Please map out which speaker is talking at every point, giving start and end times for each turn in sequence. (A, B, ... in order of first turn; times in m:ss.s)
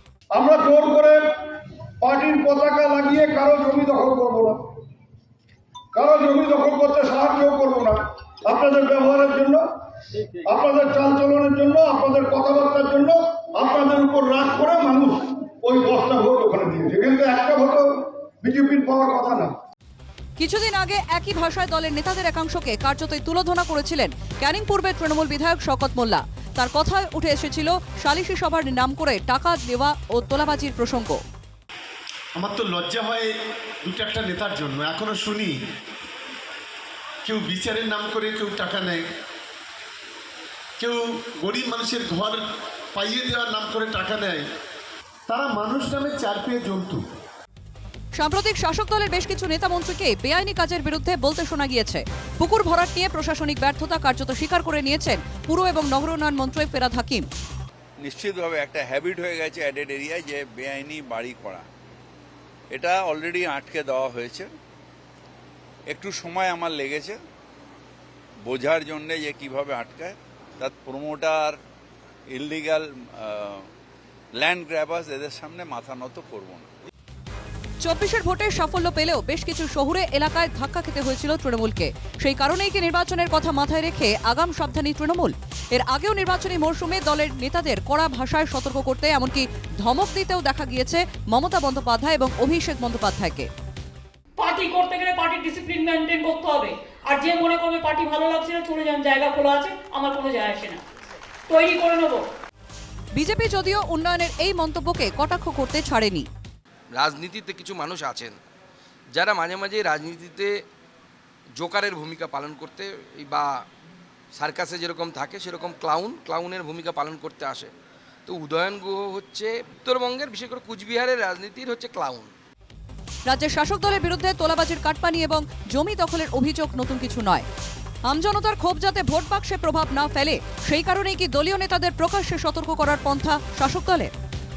0:00.4-0:01.2 A
0:02.0-0:04.6 A
0:06.0-0:09.6 A
0:10.5-0:19.6 A
0:20.4-0:31.2 B
0:32.4-0:33.3 C
0:33.8-0:35.5 C
0:37.2-0:39.0 C
0:40.8-0:42.4 C
0:42.9-0:44.4 C
0:45.3-0:47.0 C
0:48.2-0:57.3 B
0:58.0-1:01.7 D
1:02.7-1:04.5 D
1:05.9-1:07.2 D
1:08.4-1:11.6 D
1:12.3-1:13.7 D
1:14.4-1:16.7 D
1:17.8-1:33.5 B
1:34.4-1:40.8 E
1:41.5-1:42.2 E
1:43.2-1:46.3 B
1:46.9-1:48.4 F
1:49.1-1:50.6 F
1:51.6-1:53.5 F
1:54.3-1:57.7 F
1:58.3-2:02.3 F
2:03.3-2:07.5 B
2:08.1-2:14.1 B